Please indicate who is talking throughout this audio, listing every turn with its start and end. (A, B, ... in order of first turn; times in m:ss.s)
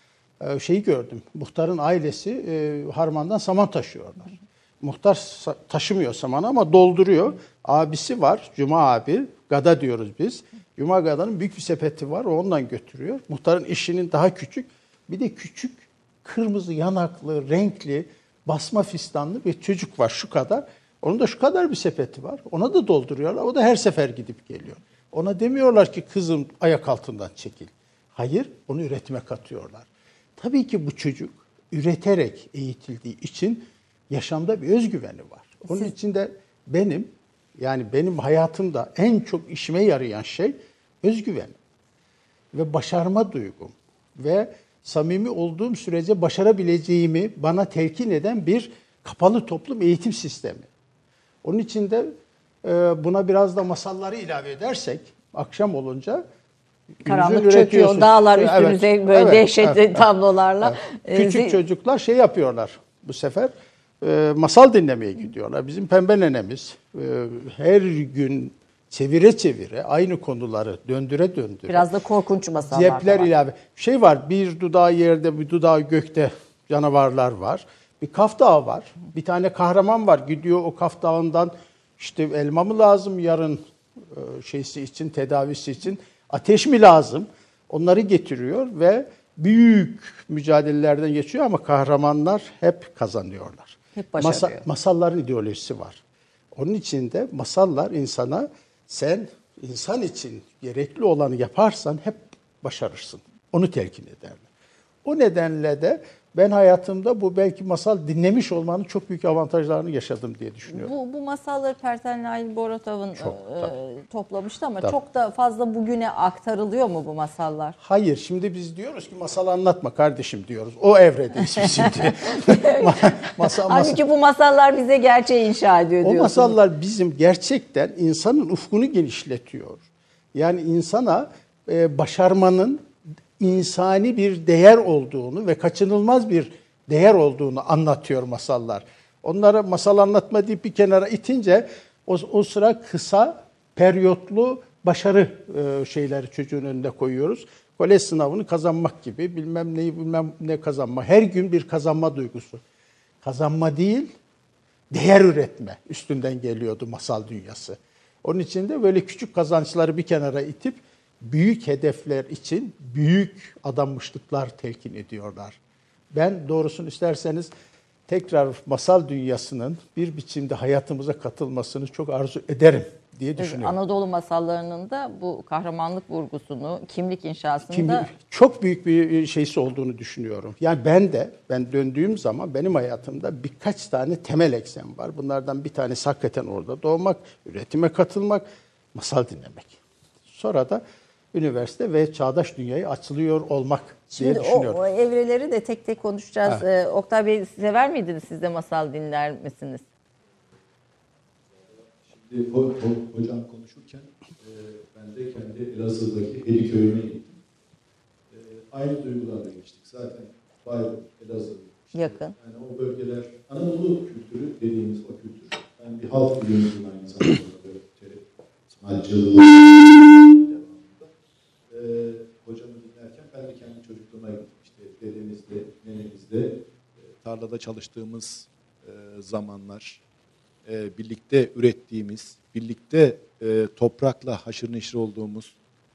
0:00.4-0:41.6 A
0:35.7-0:35.9 B
0:42.5-0:50.7 A
0:51.4-0:56.2 A
0:57.0-1:00.0 A
0:57.0-1:01.6 B
1:00.6-1:11.9 A
1:11.7-1:13.3 B
1:12.6-1:36.0 A
1:33.9-1:34.6 B
1:36.5-1:44.4 A
1:45.0-1:50.9 A
1:50.7-1:57.8 B
1:53.2-1:53.7 A
1:57.8-2:04.0 A
2:01.8-2:06.6 B
2:06.0-2:12.9 A
2:13.4-2:32.6 A
2:33.2-2:34.1 A
2:34.9-2:45.6 A
2:46.1-2:47.5 A
2:48.1-2:53.8 A
2:53.4-2:58.1 B
2:57.7-3:14.8 A
3:14.2-3:19.8 B
3:21.5-3:27.3 C
3:28.3-3:41.1 C
3:31.9-3:32.4 B
3:41.7-3:50.0 C
3:50.6-3:55.5 C